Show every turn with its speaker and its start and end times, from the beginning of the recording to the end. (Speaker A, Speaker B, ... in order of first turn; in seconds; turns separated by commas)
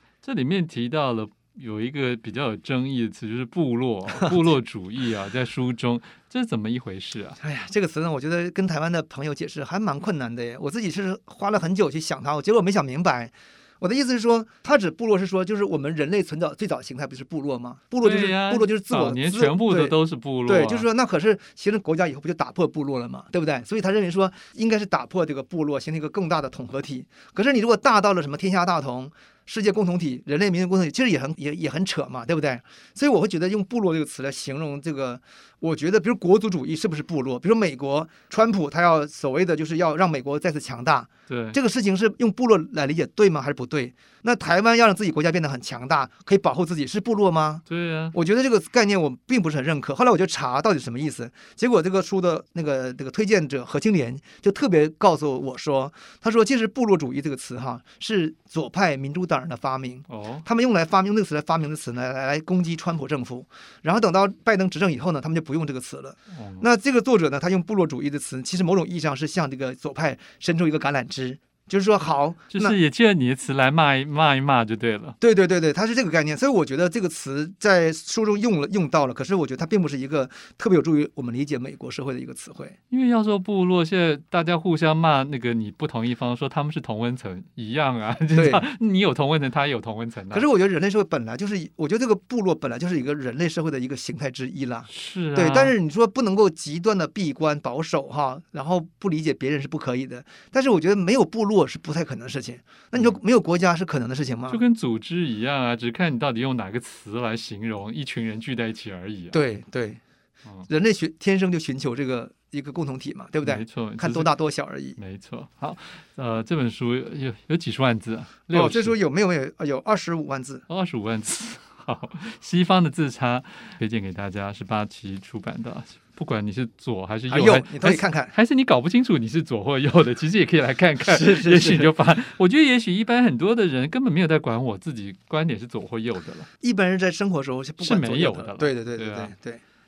Speaker A: 0.2-7.4, Speaker B: 7.4-19.9, Speaker A: 18.0-20.9, Speaker B: 20.4-47.6, Speaker A: 41.3-41.6, Speaker A: 47.7-48.1, Speaker B: 48.1-72.8, Speaker A: 60.1-60.4, Speaker A: 66.3-66.6, Speaker A: 72.5-75.2, Speaker B: 75.2-82.8, Speaker A: 82.9-90.5, Speaker B: 88.3-88.7, Speaker B: 90.3-104.6, Speaker A: 94.9-95.7, Speaker A: 104.5-109.4, Speaker B: 109.3-110.0, Speaker B: 110.7-115.0, Speaker A: 113.4-114.3, Speaker A: 115.0-119.0, Speaker B: 118.5-120.6, Speaker A: 120.7-136.5, Speaker B: 127.3-128.3, Speaker B: 131.0-131.9, Speaker B: 136.6-139.6, Speaker A: 137.8-139.3